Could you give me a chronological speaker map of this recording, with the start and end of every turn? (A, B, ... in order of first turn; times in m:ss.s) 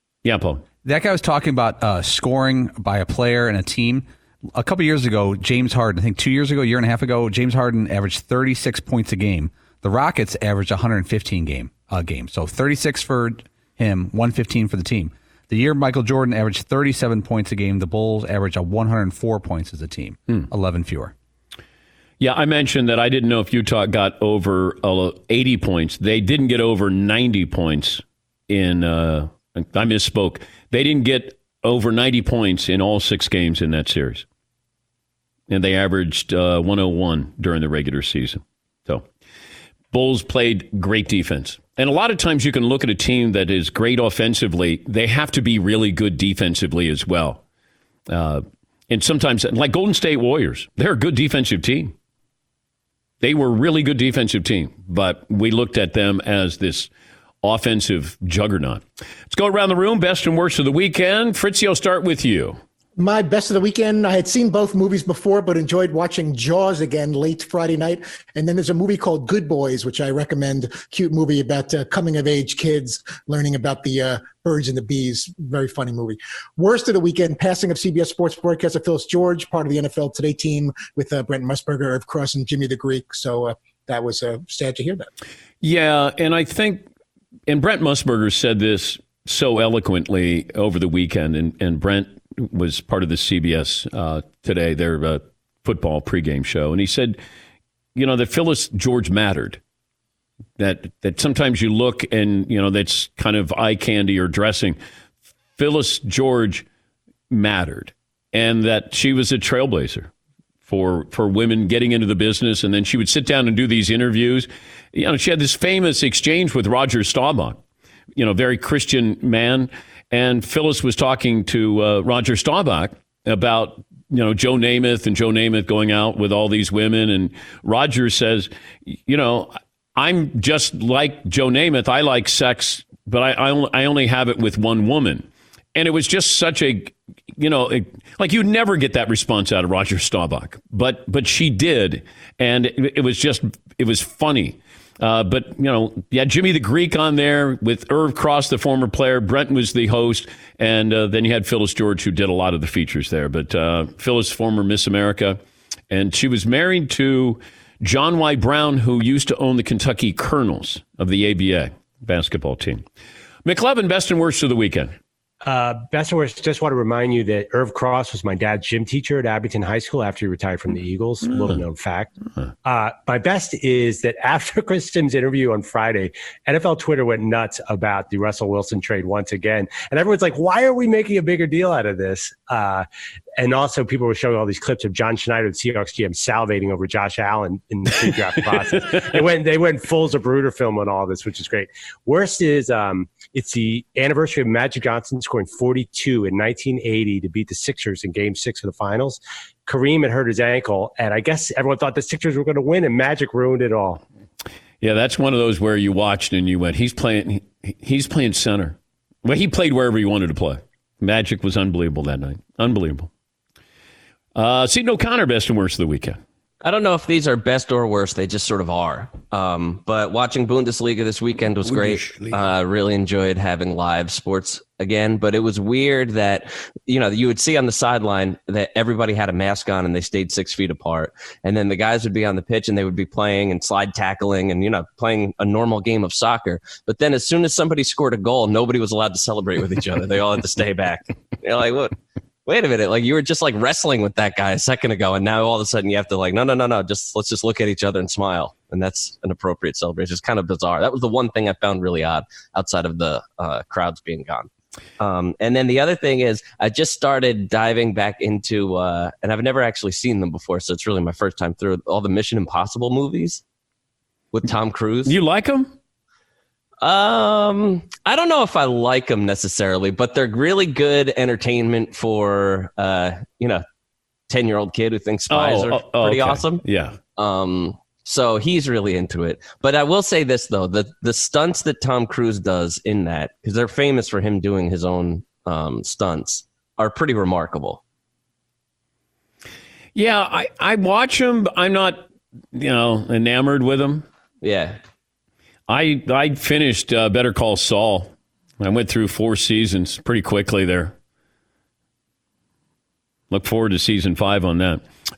0:00.2-0:00.6 A
0:00.8-0:04.0 B
0:04.6-0:21.1 B
0:22.2-0:34.2 A
0:35.5-0:39.0 A
0:39.9-0:47.4 A
0:48.1-0:51.9 A
0:53.2-0:56.9 A
0:57.4-1:02.6 A
1:03.0-1:25.1 C
1:25.6-1:26.8 A
1:27.5-1:37.2 A
1:37.9-1:39.6 A
1:40.6-1:44.8 A
1:45.6-1:46.6 A
1:47.3-1:50.1 A
1:50.6-1:57.6 A
1:58.2-2:35.4 A
2:35.9-2:42.8 A
2:43.4-2:44.9 A
2:45.4-2:52.1 D
2:52.6-3:02.9 D
3:03.4-3:24.0 D
3:24.8-3:33.1 A
3:34.3-3:36.2 A
3:36.6-4:14.5 E
3:42.1-3:42.3 A
4:15.0-4:23.4 E
4:24.3-4:25.2 E
4:25.0-4:25.7 A
4:26.8-4:33.6 E
4:34.3-4:36.6 E
4:35.3-4:37.0 A
4:37.2-4:47.8 E
4:49.9-4:54.0 A
4:54.4-4:54.8 E
4:55.7-5:00.9 A
5:03.3-5:04.9 A